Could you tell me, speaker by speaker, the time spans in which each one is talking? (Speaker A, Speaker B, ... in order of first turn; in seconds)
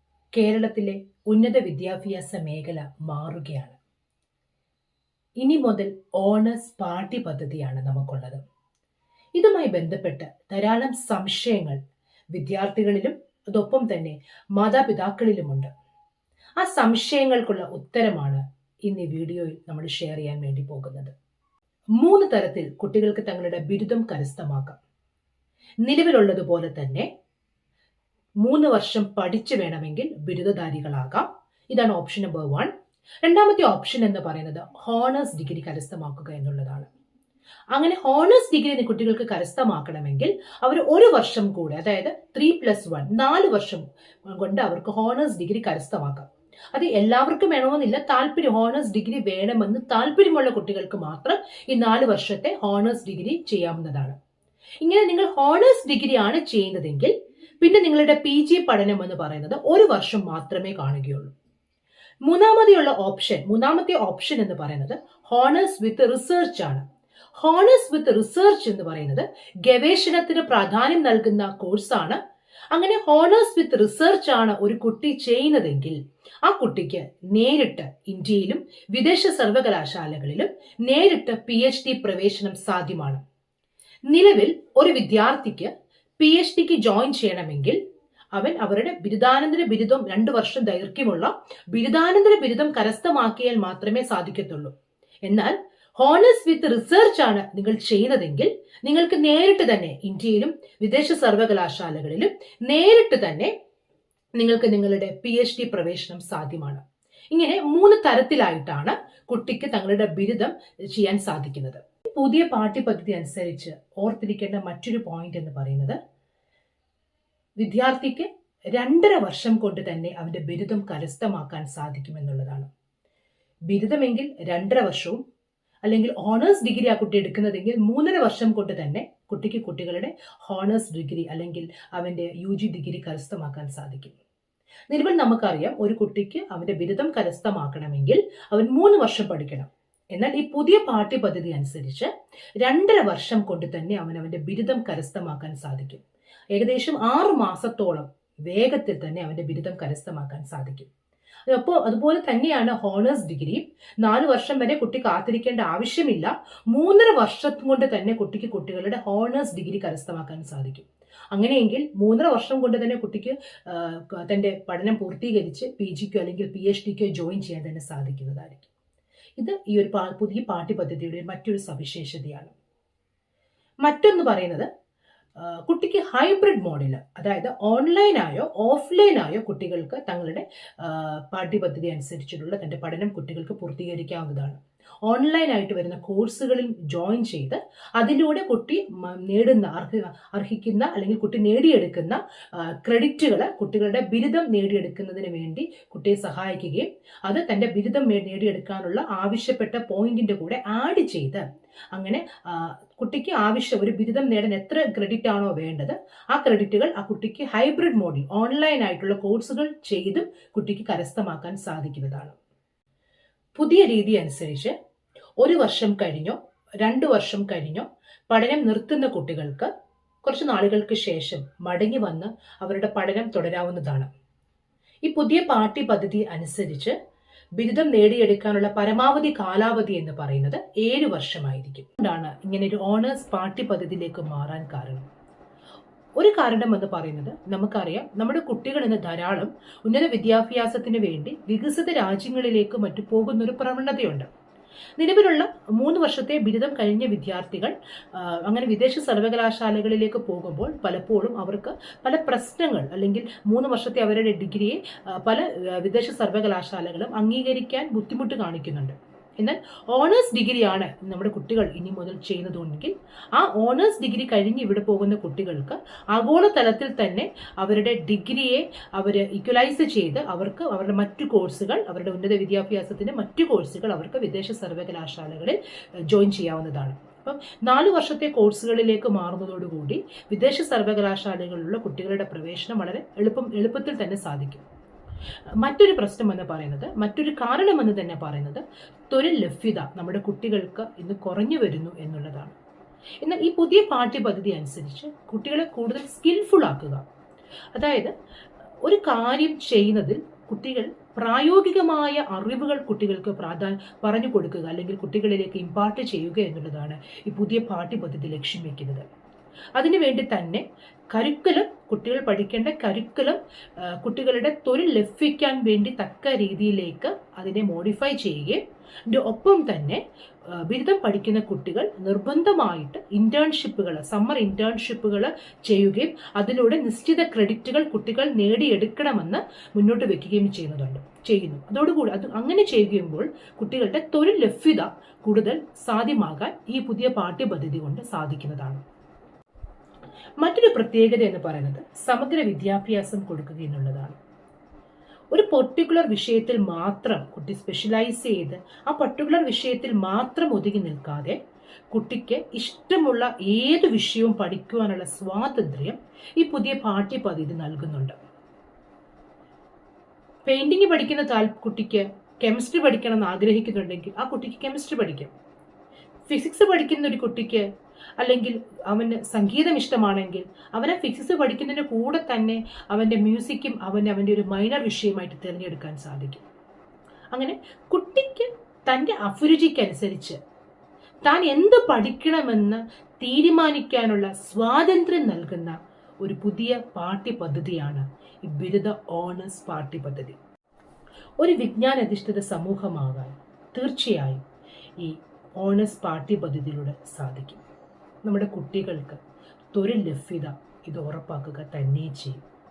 Speaker A: 0.4-3.8, 5.4-8.4, 9.4-11.8, 12.3-15.7, 16.6-21.1, 22.0-24.8, 25.8-27.1, 28.4-32.7, 33.2-36.9, 37.7-54.2, 54.8-61.3, 62.3-72.2, 72.7-83.2, 84.1-87.8, 88.3-94.7, 95.2-103.5, 104.4-116.0, 117.6-122.7, 123.7-125.2, 125.9-134.2, 134.9-142.1, 142.6-150.9, 151.5-168.7, 169.4-172.5, 173.8-174.7, 175.4-212.3, 213.6-214.7, 215.4-219.7, 220.2-224.1, 225.1-226.9, 227.6-235.1, 236.2-244.3, 245.0-284.6, 285.6-292.6, 293.2-297.1, 297.8-298.1, 298.8-309.1, 309.8-338.8, 340.4-344.2, 345.3-351.4, 351.9-358.2, 360.5-365.3, 366.3-367.7, 368.2-376.4, 377.3-380.4, 381.2-390.4, 391.4-394.4, 395.0-397.6, 398.2-399.2, 399.7-402.4